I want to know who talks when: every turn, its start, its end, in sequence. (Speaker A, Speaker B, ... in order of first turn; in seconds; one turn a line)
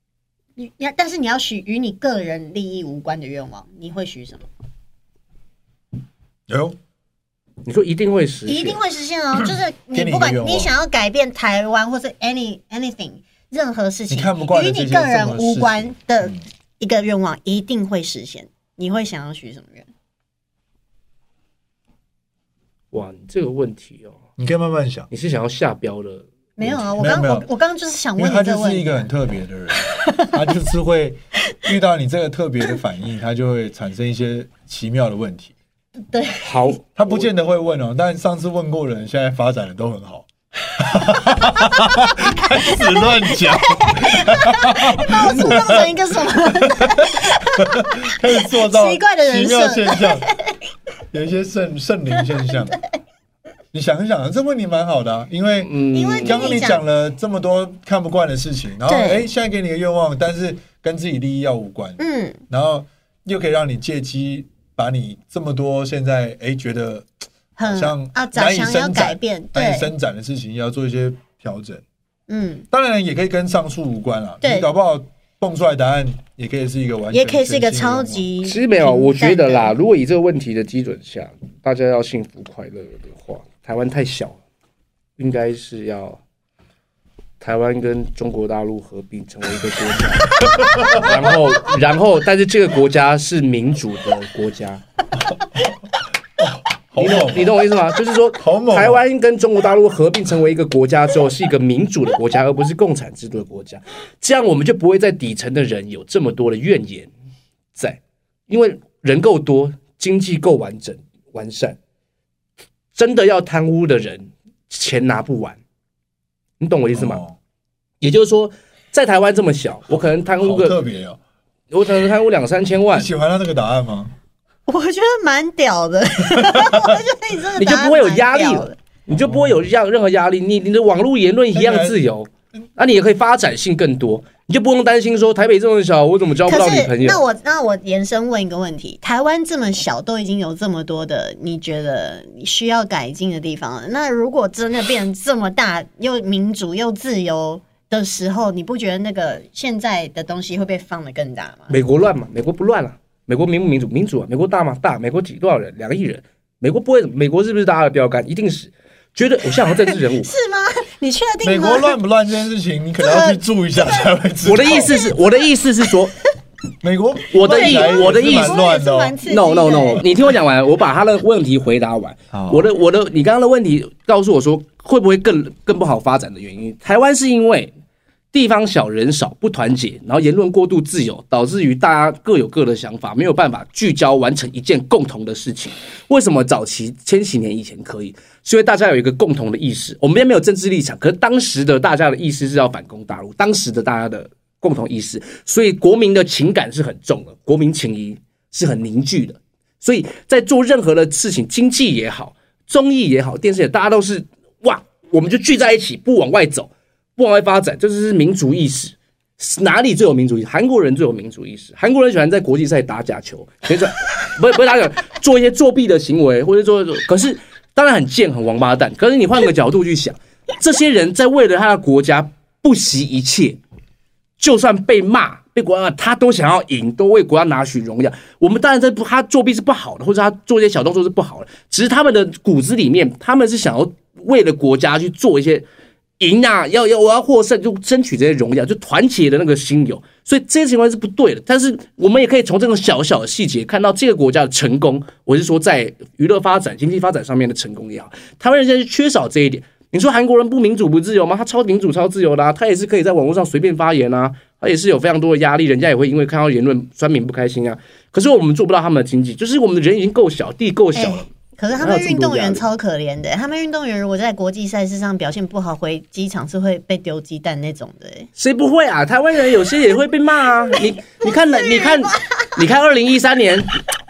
Speaker A: 0.6-4.5
Speaker B: 6.5-6.8
Speaker C: 7.6-8.8
Speaker A: 8.5-19.9
Speaker B: 9.9-10.7
Speaker B: 14.1-16.4
Speaker C: 22.9-24.2
Speaker B: 24.4-25.1
Speaker C: 25.1-26.8
Speaker A: 26.6-29.1
Speaker B: 26.9-27.4
Speaker B: 28.2-35.5
Speaker A: 29.9-30.4
Speaker A: 36.1-36.6
Speaker C: 36.4-37.2
Speaker B: 37.0-45.9
Speaker A: 41.6-50.5
Speaker C: 45.1-45.8
Speaker B: 46.4-50.2
Speaker B: 51.1-52.8
Speaker A: 52.2-52.5
Speaker B: 53.7-67.1
Speaker C: 55.6-56.6
Speaker A: 55.9-56.8
Speaker A: 58.9-59.3
Speaker A: 62.0-62.4
Speaker A: 67.6-69.9
Speaker B: 67.6-71.8
Speaker A: 72.3-72.7
Speaker B: 72.7-78.2
Speaker A: 74.4-74.7
Speaker A: 77.1-79.8
Speaker C: 78.4-84.4
Speaker C: 85.2-86.2
Speaker C: 87.4-94.8
Speaker B: 90.4-91.2
Speaker B: 95.3-95.7
Speaker B: 96.4-97.6
Speaker C: 97.0-107.1
Speaker B: 98.4-99.0
Speaker C: 107.7-111.8
Speaker C: 112.9-115.6
Speaker C: 116.6-117.2
Speaker B: 116.9-117.4
Speaker C: 118.0-120.8
Speaker B: 120.4-121.2
Speaker C: 121.7-123.1
Speaker B: 122.9-124.1
Speaker A: 124.7-128.8
Speaker B: 126.4-127.0
Speaker C: 127.6-137.2
Speaker B: 129.2-129.6
Speaker B: 131.5-132.0
Speaker A: 136.5-151.7
Speaker C: 151.7-160.3
Speaker A: 159.6-162.0
Speaker B: 161.4-165.0
Speaker A: 163.0-163.4
Speaker C: 164.4-166.1
Speaker B: 166.8-169.2
Speaker C: 167.3-168.6
Speaker A: 167.4-170.1
Speaker C: 169.2-177.7
Speaker B: 172.3-172.7
Speaker C: 178.3-223.6
Speaker C: 224.4-235.7
Speaker C: 236.2-262.6
Speaker A: 260.9-268.3
Speaker C: 268.4-273.7
Speaker A: 271.2-272.5